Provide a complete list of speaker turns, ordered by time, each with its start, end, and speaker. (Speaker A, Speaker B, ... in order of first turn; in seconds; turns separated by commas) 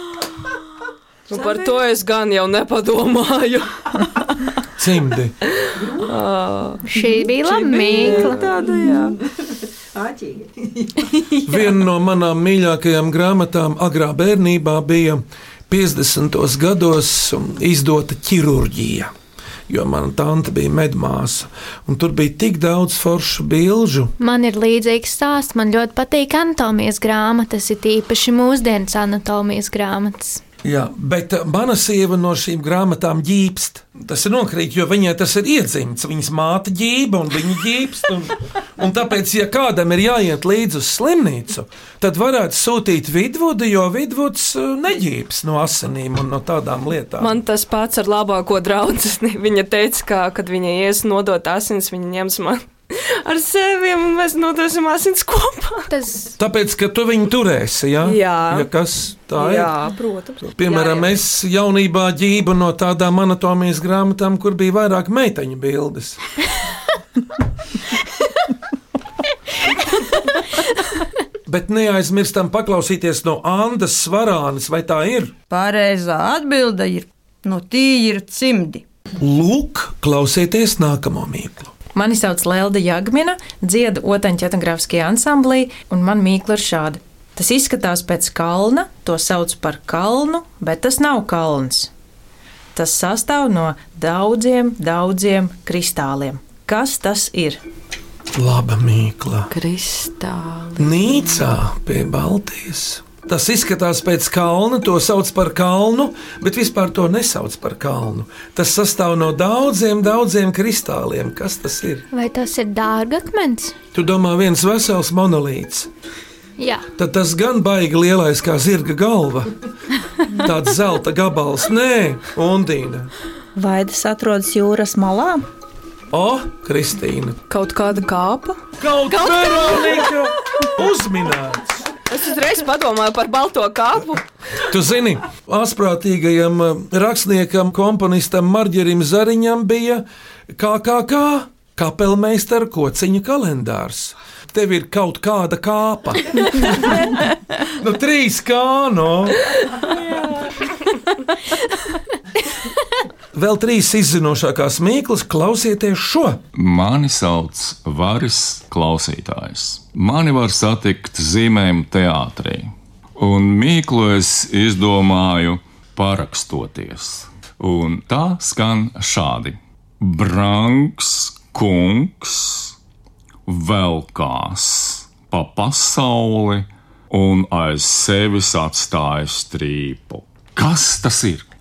Speaker A: 1.3-3.7, Speaker B: 4.8-5.3, Speaker A: 5.8-6.8, Speaker C: 6.9-8.4, Speaker D: 7.8-9.0, Speaker A: 8.3-8.9, Speaker E: 10.0-10.4, Speaker B: 11.4-19.1, Speaker B: 19.7-24.1, Speaker C: 24.2-30.4, Speaker B: 30.6-47.4, Speaker A: 47.2-55.9, Speaker C: 55.9-56.4, Speaker B: 56.4-59.7, Speaker A: 58.0-58.7, Speaker A: 59.4-61.1, Speaker B: 60.5-66.2, Speaker B: 71.5-75.3, Speaker F: 75.5-78.8, Speaker B: 79.2-81.7, Speaker G: 81.9-91.9, Speaker G: 92.7-97.6, Speaker B: 98.3-99.5, Speaker D: 99.5-101.5, Speaker B: 100.8-112.0, Speaker C: 112.1-113.7, Speaker B: 113.9-115.9, Speaker C: 116.6-116.9, Speaker B: 117.0-119.5, Speaker B: 120.3-123.1, Speaker E: 123.5-125.4, Speaker B: 126.1-127.4, Speaker A: 127.5-128.6, Speaker B: 128.8-131.9, Speaker A: 132.1-134.2, Speaker B: 134.7-147.0, Speaker B: 147.8-149.4, Speaker B: 153.3-156.4, Speaker H: 156.5-172.7, Speaker H: 173.5-181.5